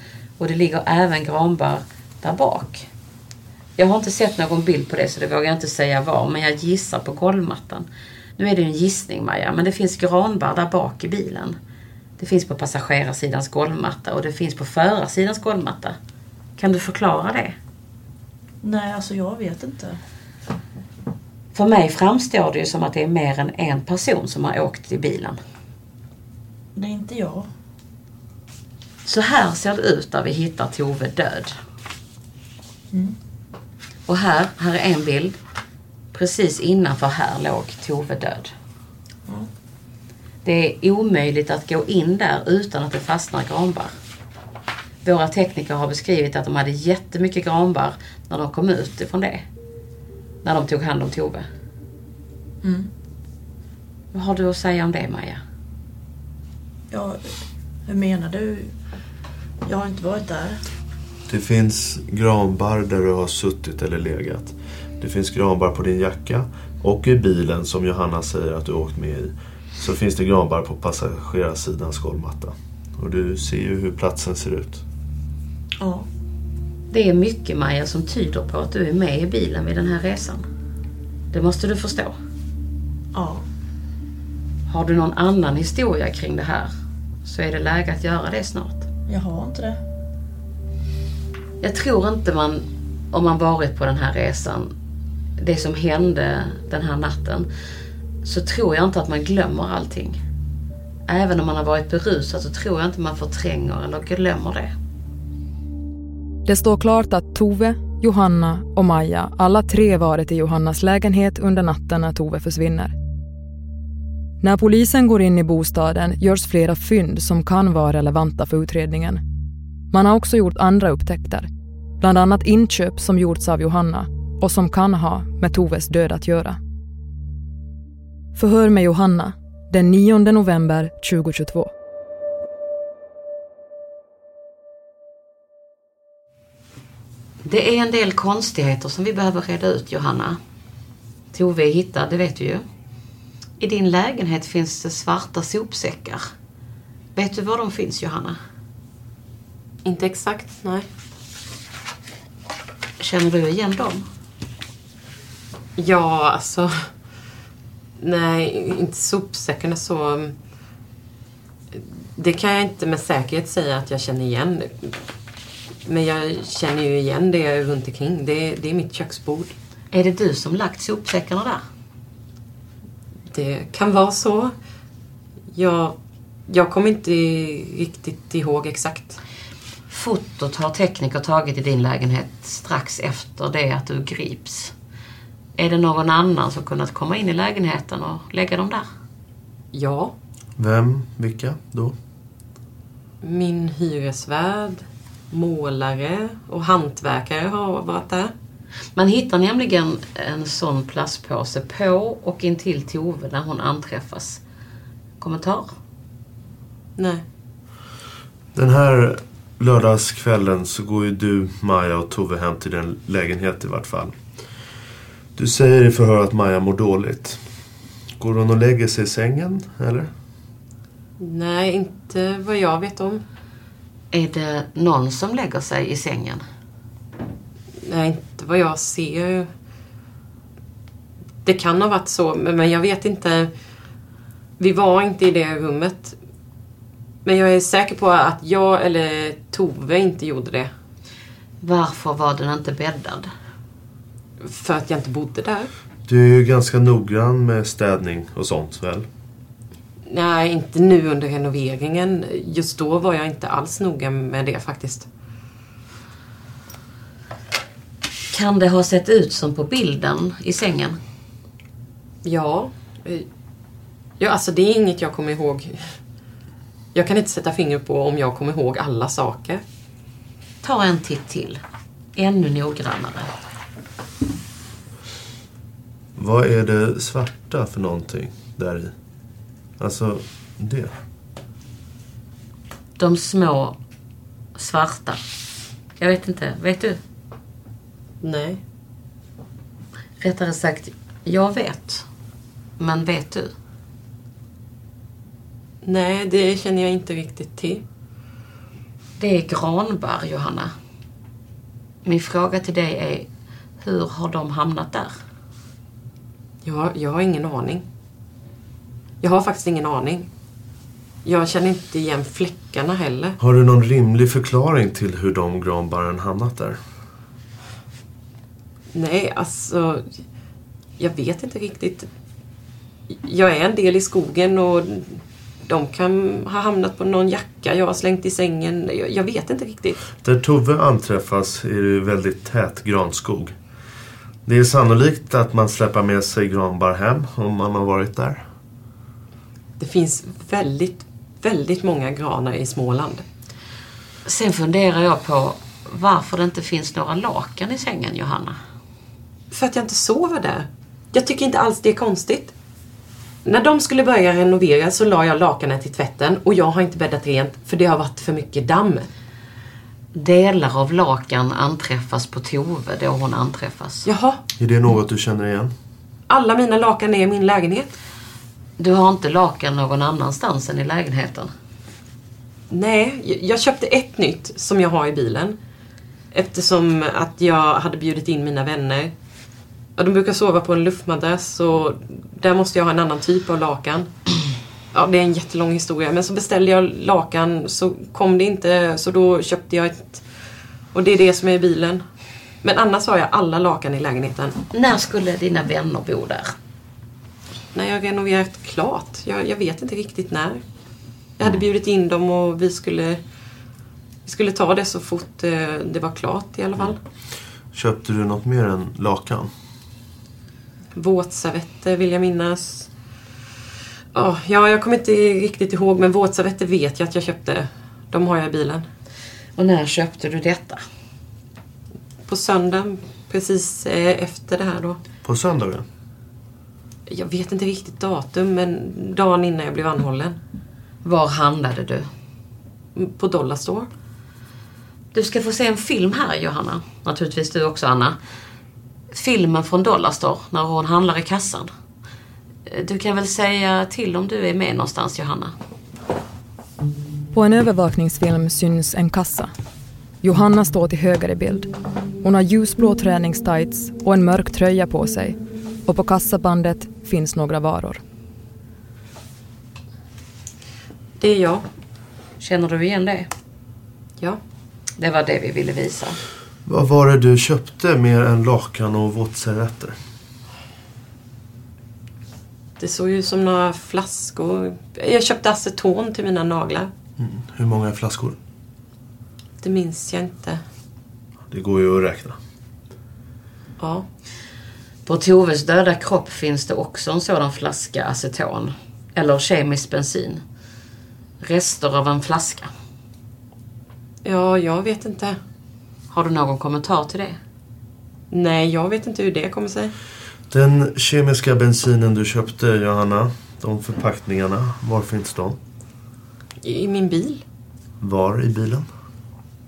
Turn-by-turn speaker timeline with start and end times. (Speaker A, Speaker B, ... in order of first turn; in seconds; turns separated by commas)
Speaker A: 0.4-2.9, Speaker A: 3.8-11.6, Speaker A: 12.2-16.0, Speaker A: 16.6-17.6, Speaker B: 18.6-20.0, Speaker A: 21.5-25.4, Speaker B: 26.8-27.5, Speaker A: 29.1-31.6, Speaker A: 34.1-35.4, Speaker A: 36.1-38.5, Speaker A: 40.4-43.9, Speaker A: 45.0-49.5, Speaker A: 50.4-51.5, Speaker B: 52.6-52.9, Speaker A: 54.1-55.4, Speaker B: 56.9-58.8, Speaker B: 59.7-60.6, Speaker C: 61.3-74.8, Speaker B: 75.8-76.1, Speaker A: 76.9-80.5, Speaker A: 81.3-82.2, Speaker B: 83.1-83.5, Speaker A: 84.7-86.7, Speaker A: 87.2-88.8, Speaker B: 89.1-89.8, Speaker A: 91.6-94.7, Speaker A: 95.4-97.5, Speaker A: 98.2-100.2, Speaker A: 101.1-104.7, Speaker D: 106.5-113.0, Speaker D: 114.4-119.2, Speaker D: 119.9-121.5, Speaker D: 122.0-126.6, Speaker D: 128.3-131.7, Speaker A: 137.4-140.4, Speaker A: 141.3-142.7, Speaker A: 143.6-146.2, Speaker A: 147.2-148.4, Speaker E: 149.8-150.9, Speaker A: 153.0-154.1, Speaker E: 155.8-156.9, Speaker E: 158.0-160.3, Speaker E: 161.7-165.0, Speaker E: 165.8-169.5, Speaker A: 169.9-171.6, Speaker E: 173.3-174.5, Speaker E: 175.5-175.9, Speaker E: 176.5-179.2, Speaker A: 179.9-184.7, Speaker A: 185.6-188.8, Speaker E: 189.7-190.1, Speaker C: 190.6-191.9, Speaker E: 193.2-198.3, Speaker A: 199.0-204.4, Speaker A: 205.2-205.7, Speaker E: 207.0-207.2, Speaker C: 208.6-214.2, Speaker C: 215.4-217.4, Speaker C: 218.2-220.1, Speaker E: 221.2-223.2, Speaker A: 224.1-226.4, Speaker E: 227.8-229.5, Speaker E: 231.4-233.5, Speaker E: 234.6-236.2, Speaker E: 237.2-240.7, Speaker A: 241.6-243.3, Speaker E: 244.4-245.7, Speaker C: 246.1-249.1, Speaker E: 250.1-255.1, Speaker A: 258.3-261.0, Speaker E: 262.2-263.3, Speaker E: 264.2-265.9, Speaker E: 266.9-269.6, Speaker A: 270.6-271.6, Speaker A: 272.2-273.3, Speaker C: 276.2-278.9, Speaker C: 279.8-280.9, Speaker A: 283.0-283.8, Speaker A: 284.6-285.2, Speaker A: 286.0-287.0, Speaker E: 288.2-288.6, Speaker A: 290.2-292.1, Speaker A: 292.8-293.5, Speaker E: 295.8-297.8, Speaker A: 299.2-300.7, Speaker A: 302.1-303.3, Speaker A: 303.8-305.1, Speaker E: 306.6-307.9, Speaker E: 309.2-310.3, Speaker E: 311.2-313.4, Speaker C: 313.4-316.8, Speaker E: 318.9-320.1, Speaker E: 321.0-322.1, Speaker E: 323.1-330.0, Speaker C: 330.2-333.6, Speaker C: 334.5-338.4, Speaker E: 339.8-343.2, Speaker A: 344.3-348.6, Speaker E: 349.5-352.5, Speaker E: 353.4-359.1, Speaker A: 360.1-364.1, Speaker E: 364.1-364.4, Speaker C: 364.6-365.7, Speaker E: 366.3-367.9, Speaker A: 368.8-371.5, Speaker E: 372.7-375.6, Speaker E: 376.3-379.1, Speaker E: 380.0-384.1, Speaker E: 384.9-390.2, Speaker E: 390.9-392.0, Speaker E: 392.6-394.6, Speaker A: 394.7-396.5, Speaker E: 397.7-400.6, Speaker E: 401.4-403.2, Speaker E: 404.3-407.0, Speaker C: 407.7-409.5, Speaker E: 411.0-412.9, Speaker E: 414.1-418.9, Speaker A: 419.6-420.8, Speaker E: 422.3-425.0, Speaker C: 425.2-425.9, Speaker E: 427.1-430.4, Speaker A: 431.0-432.1, Speaker E: 433.0-433.9, Speaker A: 435.1-438.2, Speaker A: 439.1-441.7, Speaker A: 442.7-445.6, Speaker D: 447.3-449.5, Speaker D: 450.2-451.7, Speaker D: 452.2-458.0, Speaker E: 461.2-461.7, Speaker A: 462.4-463.3, Speaker A: 465.0-466.2, Speaker C: 466.7-470.0, Speaker E: 472.8-476.9, Speaker C: 477.2-478.4, Speaker E: 479.6-480.6, Speaker C: 481.5-482.4, Speaker E: 483.8-484.1, Speaker A: 485.1-490.4, Speaker A: 491.4-492.7, Speaker E: 494.2-495.4, Speaker A: 496.1-497.4, Speaker E: 498.3-499.9, Speaker C: 500.5-505.6, Speaker E: 506.6-507.4, Speaker C: 508.0-508.9